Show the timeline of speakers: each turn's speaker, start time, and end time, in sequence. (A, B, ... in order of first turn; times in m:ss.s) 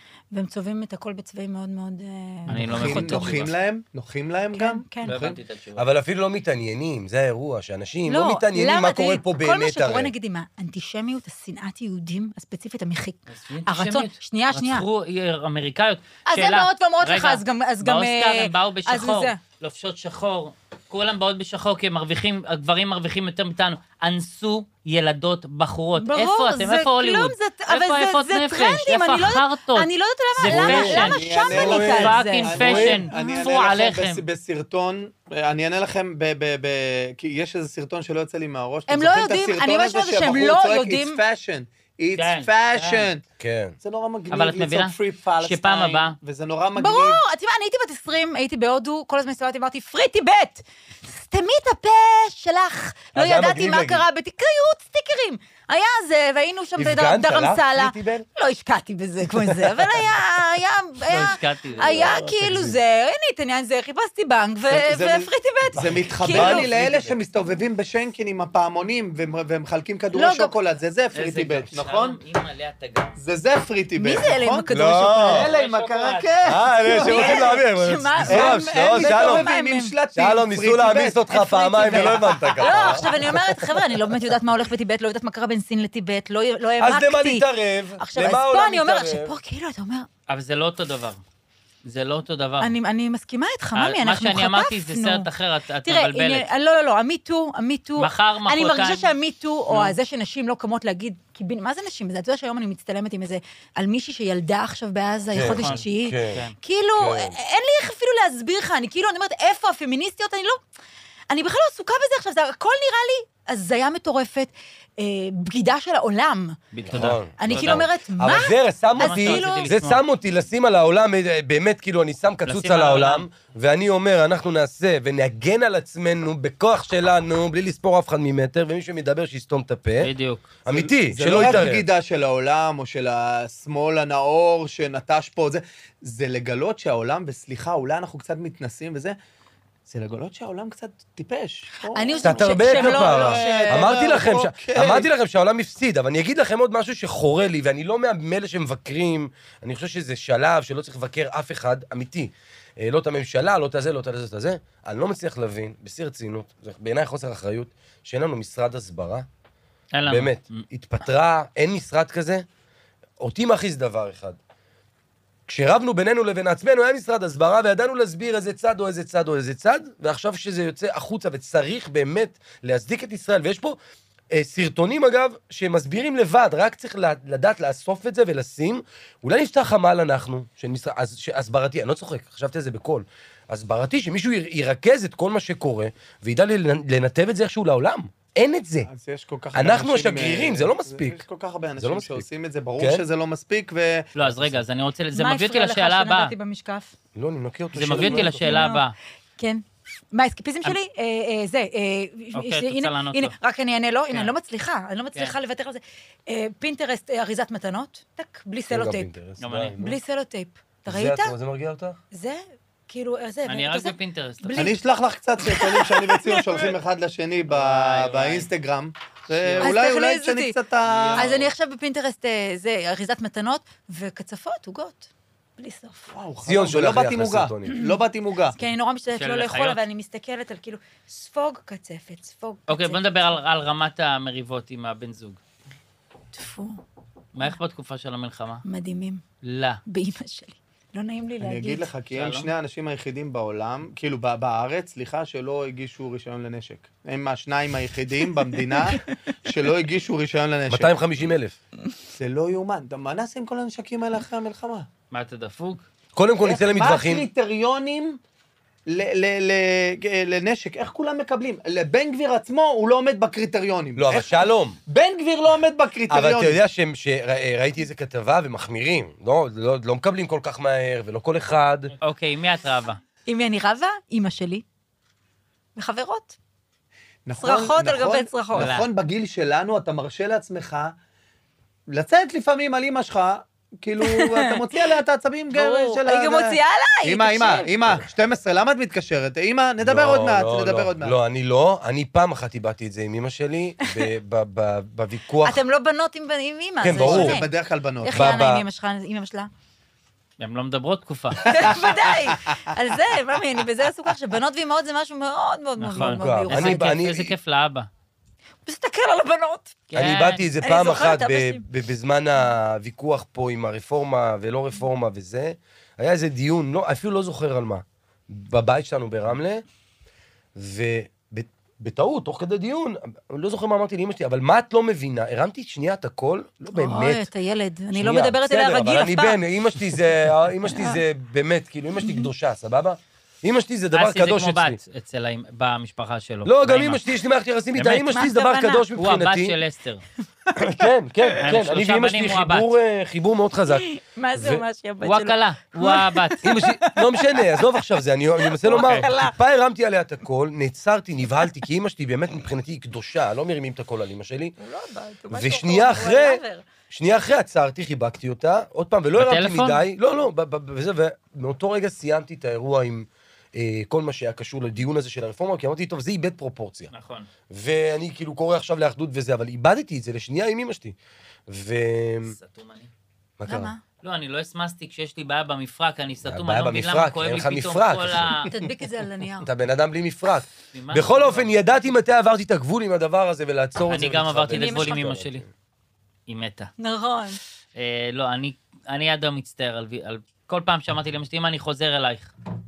0:00.3-0:03.5 A
0:02.5-0:03.5 B
0:02.5-0:05.4 C
0:04.5-0:05.1 A
0:05.0-0:05.9 B
0:05.8-0:10.1 D
0:08.1-0:14.9 A
0:13.3-0:34.2 B
0:16.3-0:19.4 A
0:26.0-0:33.4 A
0:30.4-0:32.9 D
0:30.9-0:43.2 C
0:38.9-0:41.2 A
0:42.2-0:43.1 B
0:43.4-0:43.8 D
0:43.8-0:47.2 C
0:44.3-0:46.2 B
0:46.8-1:06.7 A
0:53.1-0:54.0 D
0:56.8-0:58.3 D
0:59.3-1:00.0 D
1:01.1-1:02.2 B
1:01.8-1:02.8 D
1:04.7-1:12.2 C
1:05.8-1:07.2 D
1:10.1-1:10.6 A
1:11.1-1:13.2 B
1:13.2-1:14.7 C
1:14.0-1:15.4 A
1:14.7-1:15.5 D
1:15.2-1:17.5 C
1:15.4-1:16.5 B
1:16.4-1:19.5 D
1:16.8-1:20.0 A
1:18.3-1:21.3 C
1:20.2-1:24.2 D
1:21.3-1:30.1 A
1:21.9-1:23.0 C
1:26.8-1:29.4 D
1:30.3-1:31.2 B
1:31.8-1:32.7 B
1:32.6-1:35.3 A
1:33.8-1:36.5 B
1:35.8-1:50.6 A
1:38.0-1:39.1 B
1:39.7-1:40.0 B
1:45.3-1:46.4 D
1:45.4-1:46.6 B
1:47.0-1:47.4 D
1:51.3-1:56.6 A
1:56.7-1:57.8 B
1:56.9-2:10.1 D
1:57.4-1:59.7 A
1:59.0-2:00.0 B
2:02.5-2:03.2 B
2:10.0-2:10.5 B
2:10.6-2:11.9 D
2:10.7-2:19.2 C
2:11.4-2:11.6 B
2:19.9-2:25.1 C
2:21.9-2:24.0 A
2:22.2-2:39.3 D
2:39.9-2:40.6 B
2:40.1-2:42.4 D
2:43.2-2:44.4 D
2:45.5-2:53.8 D
2:54.3-3:08.9 D
3:08.9-3:14.1 C
3:09.5-3:11.2 D
3:11.8-3:12.3 D
3:12.8-3:13.0 D
3:14.2-3:16.3 B
3:14.2-3:14.6 D
3:15.1-3:17.0 A
3:17.2-3:18.4 D
3:17.7-3:19.0 B
3:18.0-3:18.8 A
3:19.4-3:29.1 A
3:22.4-3:23.3 B
3:28.7-3:30.0 D
3:29.4-3:29.8 B
3:29.8-3:31.4 A
3:30.9-3:32.0 D
3:32.1-3:34.8 A
3:33.5-3:34.8 B
3:34.6-3:41.3 C
3:35.4-3:36.7 A
3:37.5-3:38.5 B
3:39.4-3:39.8 B
3:39.6-3:40.6 A
3:40.9-3:41.5 B
3:41.1-3:46.1 A
3:46.1-3:48.6 C
3:46.4-3:47.8 D
3:47.7-3:48.0 A
3:48.5-3:53.2 A
3:49.2-3:49.8 B
3:52.7-3:55.4 B
3:56.4-3:56.8 A
3:57.4-3:58.6 B
3:58.6-3:59.2 A
3:59.4-3:59.8 B
3:59.9-4:01.9 A
4:01.4-4:11.3 C
4:02.1-4:02.5 B
4:10.7-4:11.6 D
4:12.2-4:14.9 C
4:15.1-4:15.8 B
4:16.2-4:17.3 D
4:16.4-4:18.2 C
4:18.9-4:26.6 C
4:24.0-4:24.8 D
4:26.1-4:31.9 D
4:32.0-4:33.0 B
4:33.3-4:34.6 A
4:35.8-4:36.4 A
4:37.3-4:40.9 C
4:37.4-4:38.7 A
4:38.5-4:38.9 B
4:41.9-4:51.1 C
4:44.0-4:44.5 A
4:45.5-4:47.7 A
4:49.8-4:55.6 D
4:55.4-4:59.5 A
4:56.8-4:57.4 D
4:57.0-4:58.4 C
4:58.1-4:58.6 D
5:00.4-5:01.6 B
5:01.4-5:07.0 A
5:05.8-5:07.9 B
5:06.0-5:07.3 D
5:08.6-5:09.8 A
5:09.9-5:10.5 B
5:10.0-5:19.6 D
5:10.6-5:11.6 A
5:20.6-5:27.3 D
5:26.7-5:29.4 A
5:27.9-5:34.8 D
5:30.7-5:31.0 A
5:33.9-5:37.0 B
5:36.4-5:39.6 D
5:37.7-5:38.2 B
5:38.1-5:38.9 A
5:39.0-5:40.0 B
5:40.5-5:41.4 A
5:40.6-5:44.6 D
5:41.4-5:42.7 B
5:43.7-5:47.8 A
5:45.0-5:46.5 B
5:46.4-5:54.5 D
5:48.4-5:49.4 A
5:48.7-5:49.1 B
5:54.6-5:56.6 A
5:55.3-6:06.9 D
5:59.2-5:59.8 B
6:06.9-6:07.3 B
6:07.5-6:11.0 D
6:11.5-6:12.4 D
6:12.2-6:12.9 B
6:13.4-6:13.7 D
6:13.5-6:13.8 A
6:14.0-6:18.6 B
6:16.2-6:18.5 D
6:18.5-6:19.5 A
6:19.4-6:25.5 D
6:20.7-6:21.5 B
6:23.9-6:25.4 B
6:24.5-6:25.1 A
6:26.3-6:26.7 B
6:26.8-6:27.4 A
6:27.8-6:32.3 B